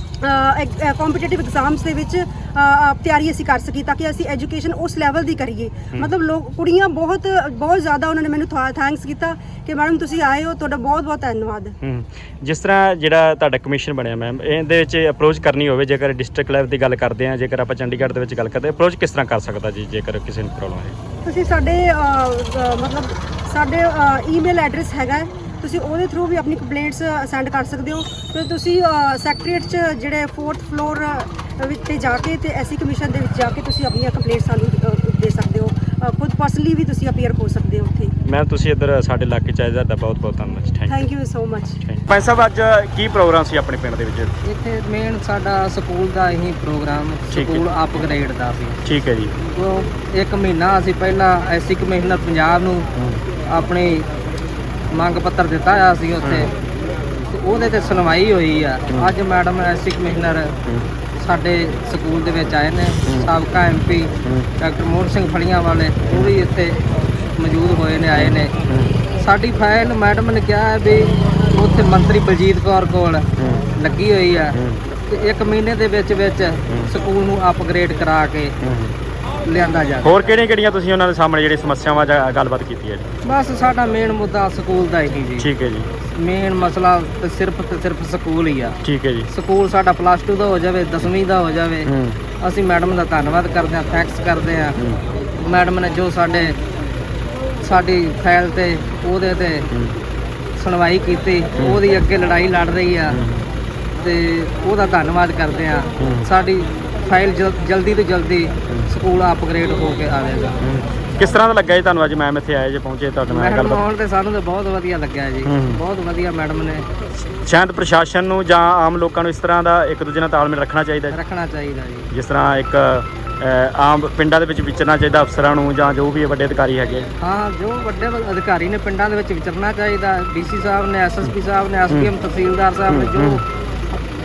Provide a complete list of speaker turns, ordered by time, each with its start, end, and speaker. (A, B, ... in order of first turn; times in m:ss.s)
0:00.2-0:11.7 A
0:11.8-0:21.0 B
0:21.2-0:38.2 A
0:38.2-0:41.1 B
0:40.9-0:41.8 A
0:41.8-0:44.4 B
0:44.4-0:48.8 C
0:47.3-0:47.7 B
0:48.8-0:49.3 B
0:49.4-0:52.9 C
0:53.0-0:53.2 B
0:53.5-0:54.1 C
0:54.9-0:56.5 C
0:56.2-0:56.5 B
0:57.3-1:00.6 C
0:58.9-0:59.2 B
1:01.2-1:06.8 C
1:03.0-1:03.3 B
1:04.2-1:04.5 B
1:06.1-1:06.4 B
1:07.4-1:08.6 C
1:08.1-1:09.0 B
1:09.1-1:18.6 C
1:13.4-1:13.7 B
1:14.6-1:14.8 B
1:16.7-1:17.0 B
1:18.6-1:19.0 B
1:19.4-1:20.3 C
1:20.0-1:23.1 B
1:23.2-1:25.5 C
1:25.4-1:25.9 B
1:26.1-1:34.8 C
1:28.8-1:29.3 B
1:31.8-1:32.2 B
1:35.4-1:36.6 C
1:37.6-1:39.7 C
1:39.7-1:40.0 B
1:40.6-1:43.2 C
1:41.6-1:41.8 B
1:43.1-1:43.5 B
1:44.0-1:50.6 C
1:46.0-1:46.3 B
1:50.6-1:53.8 B
1:53.4-1:56.9 C
1:55.4-1:55.8 B
1:57.4-2:01.2 B
2:01.1-2:02.1 C
2:02.1-2:07.1 B
2:07.2-2:13.4 C
2:11.9-2:12.2 B
2:12.9-2:13.4 B